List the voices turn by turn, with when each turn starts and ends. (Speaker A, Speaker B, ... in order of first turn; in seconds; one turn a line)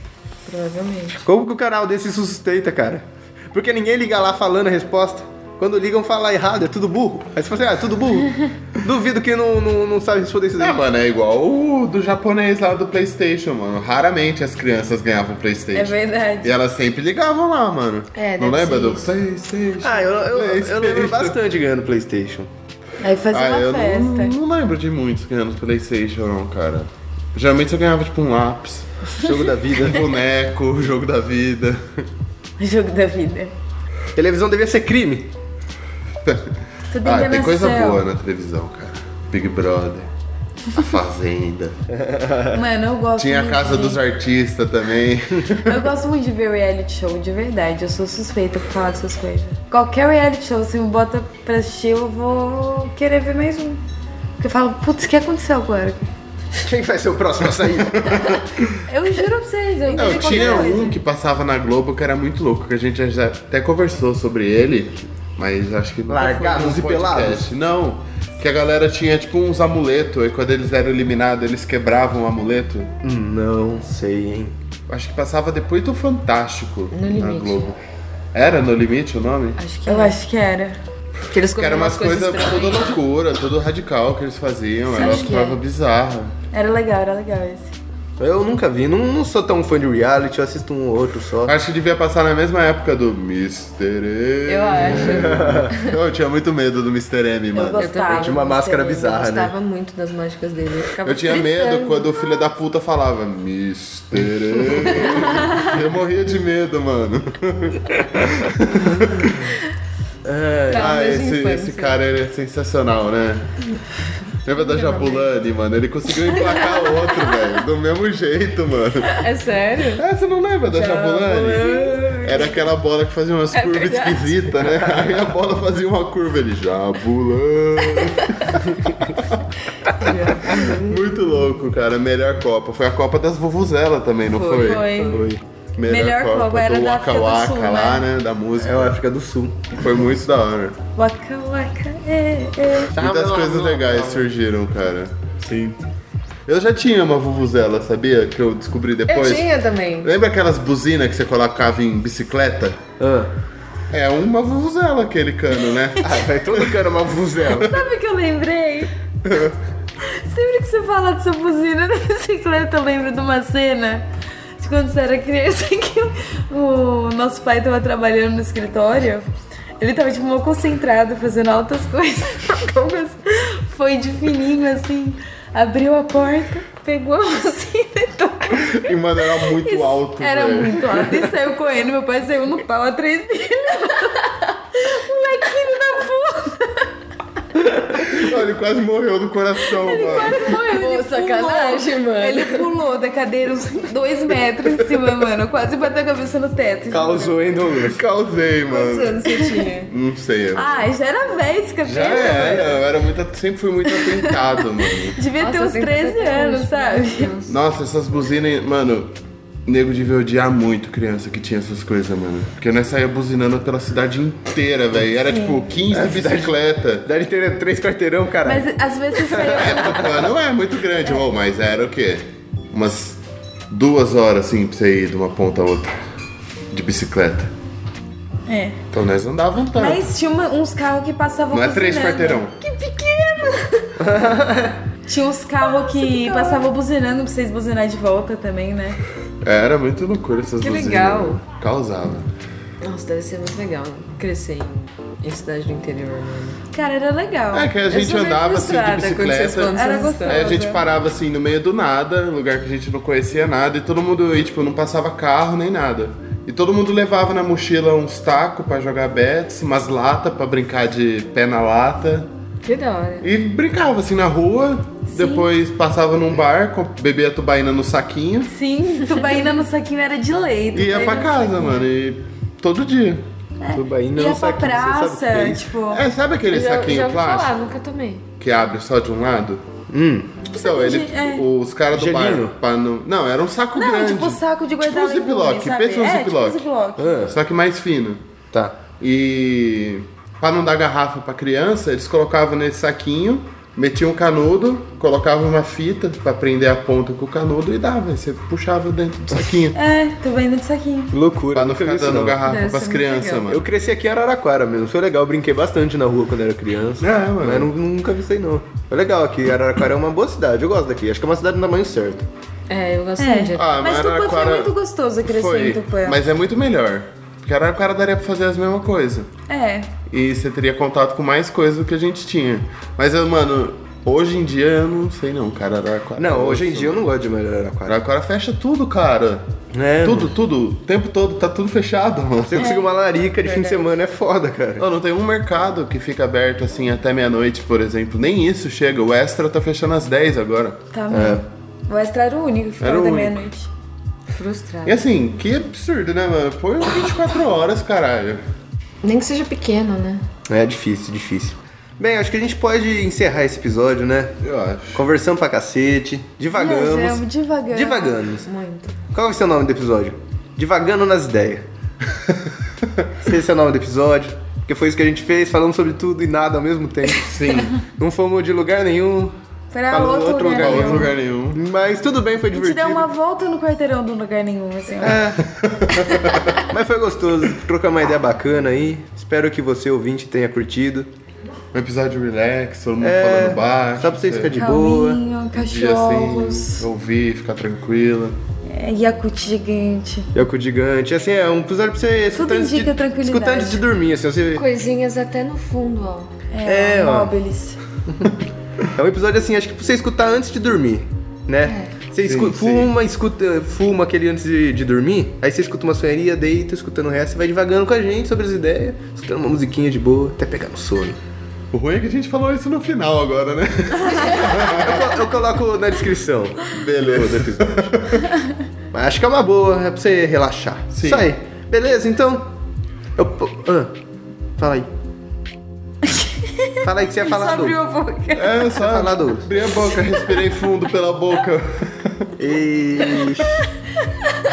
Speaker A: 0.4-1.2
Speaker B: 1.2-10.8
Speaker C: 10.6-21.4
Speaker D: 15.7-16.5
Speaker A: 18.1-19.1
Speaker B: 19.8-22.5
Speaker D: 23.0-24.3
Speaker C: 23.3-29.1
Speaker B: 29.2-30.1
Speaker C: 29.6-32.0
Speaker D: 32.6-33.5
Speaker B: 34.1-35.3
Speaker C: 36.2-40.1
Speaker D: 36.9-38.0
Speaker C: 40.7-41.8
Speaker B: 41.9-42.6
Speaker D: 42.5-44.0
Speaker C: 43.2-45.8
Speaker D: 45.6-53.8
Speaker D: 54.4-56.1
Speaker B: 56.6-58.4
Speaker C: 58.0-58.7
Speaker D: 58.9-61.0
Speaker A: 59.9-60.8
Speaker C: 59.9-72.9
Speaker B: 66.1-67.5
Speaker B: 73.0-74.5
Speaker C: 74.9-77.8
Speaker A: 76.9-77.7
Speaker C: 78.3-79.6
Speaker A: 79.6-80.2
Speaker D: 79.8-80.8
Speaker A: 81.3-83.0
Speaker C: 81.5-86.3
Speaker A: 84.9-85.6
Speaker D: 86.5-87.7
Speaker B: 88.2-91.5
Speaker C: 91.4-97.9
Speaker A: 94.5-96.0
Speaker B: 95.1-95.7
Speaker D: 97.5-99.2
Speaker A: 97.6-98.5
Speaker B: 98.1-99.5
Speaker A: 99.0-102.1
Speaker C: 101.0-109.5
Speaker B: 110.2-111.0
Speaker A: 110.7-112.0
Speaker C: 110.7-113.5
Speaker C: 114.4-119.3
Speaker A: 114.6-115.3
Speaker A: 116.4-117.3
Speaker A: 119.1-120.0
Speaker C: 119.9-128.6
Speaker A: 120.7-122.6
Speaker D: 121.5-122.4
Speaker A: 123.5-124.6
Speaker A: 127.9-128.4
Speaker A: 129.9-131.0
Speaker C: 130.4-135.0
Speaker A: 134.3-135.3
Speaker D: 134.6-135.3
Speaker B: 135.1-135.4
Speaker C: 135.8-139.0
Speaker D: 135.9-138.1
Speaker B: 138.6-139.8
Speaker C: 139.7-140.8
Speaker D: 140.9-143.0
Speaker B: 142.9-144.3
Speaker C: 142.9-145.1
Speaker B: 145.4-145.8
Speaker C: 146.4-149.5
Speaker A: 149.1-150.1
Speaker C: 150.0-152.8
Speaker B: 153.0-153.3
Speaker C: 153.9-156.8
Speaker B: 156.0-157.7
Speaker D: 157.6-158.9
Speaker C: 159.2-159.5
Speaker D: 160.0-169.3
Speaker D: 169.8-186.9
Speaker C: 178.6-181.2
Speaker C: 187.9-190.5
Speaker D: 189.7-197.4
Speaker A: 189.7-192.7
Speaker B: 196.9-198.0
Speaker C: 197.8-199.2
Speaker A: 198.7-199.9
Speaker D: 199.2-199.6
Speaker C: 199.8-200.7
Speaker D: 200.5-202.8
Speaker B: 201.8-202.7
Speaker C: 201.9-205.2
Speaker D: 203.9-207.3
Speaker A: 205.4-207.6
Speaker C: 207.4-209.1
Speaker C: 209.7-217.1
Speaker D: 215.3-215.6
Speaker B: 215.9-219.9
Speaker D: 218.4-220.3
Speaker C: 219.3-226.0
Speaker C: 226.7-227.5
Speaker D: 228.5-228.8
Speaker C: 228.9-230.1
Speaker D: 229.7-232.4
Speaker C: 231.5-232.5
Speaker A: 232.6-233.9
Speaker B: 234.0-234.8
Speaker D: 235.1-239.0
Speaker A: 235.6-236.7
Speaker C: 239.4-242.3
Speaker A: 240.6-241.4
Speaker A: 242.8-246.6
Speaker D: 246.7-248.0
Speaker C: 247.5-262.3
Speaker A: 247.9-250.6
Speaker D: 249.7-250.8
Speaker A: 262.6-263.3
Speaker C: 263.2-268.5
Speaker D: 265.1-265.5
Speaker D: 268.5-271.9
Speaker C: 270.7-273.2
Speaker D: 273.6-276.0
Speaker B: 273.7-275.6
Speaker C: 275.9-277.6
Speaker A: 276.5-278.2
Speaker C: 278.4-279.6
Speaker B: 279.9-280.4
Speaker D: 280.5-281.4
Speaker C: 280.5-286.6
Speaker B: 281.9-282.6
Speaker D: 283.8-287.3
Speaker B: 287.0-287.4
Speaker C: 287.3-288.2
Speaker B: 288.5-288.8
Speaker C: 289.0-299.8
Speaker D: 299.7-301.1
Speaker B: 301.1-302.4
Speaker C: 301.5-303.6
Speaker A: 302.4-303.5
Speaker B: 303.5-312.3
Speaker C: 307.0-307.7
Speaker A: 312.7-313.7
Speaker D: 313.2-316.2
Speaker C: 313.6-319.3
Speaker D: 319.5-319.9
Speaker C: 320.1-327.0
Speaker B: 326.2-327.9
Speaker C: 327.8-329.5
Speaker B: 329.7-330.3
Speaker C: 330.0-332.7
Speaker B: 332.4-334.9
Speaker D: 332.6-332.9
Speaker A: 333.4-333.8
Speaker C: 334.8-340.8
Speaker D: 340.9-343.7
Speaker B: 341.1-341.4
Speaker C: 342.8-343.4
Speaker A: 344.3-345.0
Speaker C: 344.8-348.4
Speaker A: 349.0-350.2
Speaker B: 350.5-354.3
Speaker C: 354.4-355.1
Speaker B: 354.9-358.5
Speaker D: 356.5-358.2
Speaker A: 358.4-358.9
Speaker B: 359.1-361.6
Speaker B: 363.2-367.3
Speaker C: 367.1-367.8
Speaker B: 367.9-369.3
Speaker D: 369.7-371.1
Speaker B: 369.9-373.1
Speaker C: 370.6-371.6
Speaker D: 372.5-375.4
Speaker B: 375.0-375.4
Speaker C: 375.4-376.6
Speaker B: 376.6-381.1
Speaker C: 381.7-384.6
Speaker B: 383.0-385.2
Speaker D: 384.5-386.8
Speaker C: 385.5-388.4
Speaker D: 388.6-390.3
Speaker B: 390.3-394.6
Speaker D: 392.3-393.8
Speaker A: 394.5-396.3
Speaker D: 396.5-397.8
Speaker B: 396.6-397.3
Speaker B: 398.9-411.2
Speaker A: 401.6-401.9
Speaker C: 402.2-402.9
Speaker C: 411.7-415.1
Speaker B: 414.4-417.9
Speaker C: 416.7-418.3
Speaker B: 418.9-422.5
Speaker C: 420.9-421.3
Speaker B: 423.1-423.9
Speaker B: 424.6-424.9
Speaker D: 426.4-428.6
Speaker B: 426.8-427.8
Speaker C: 428.3-432.3
Speaker B: 428.8-429.5
Speaker B: 432.4-433.6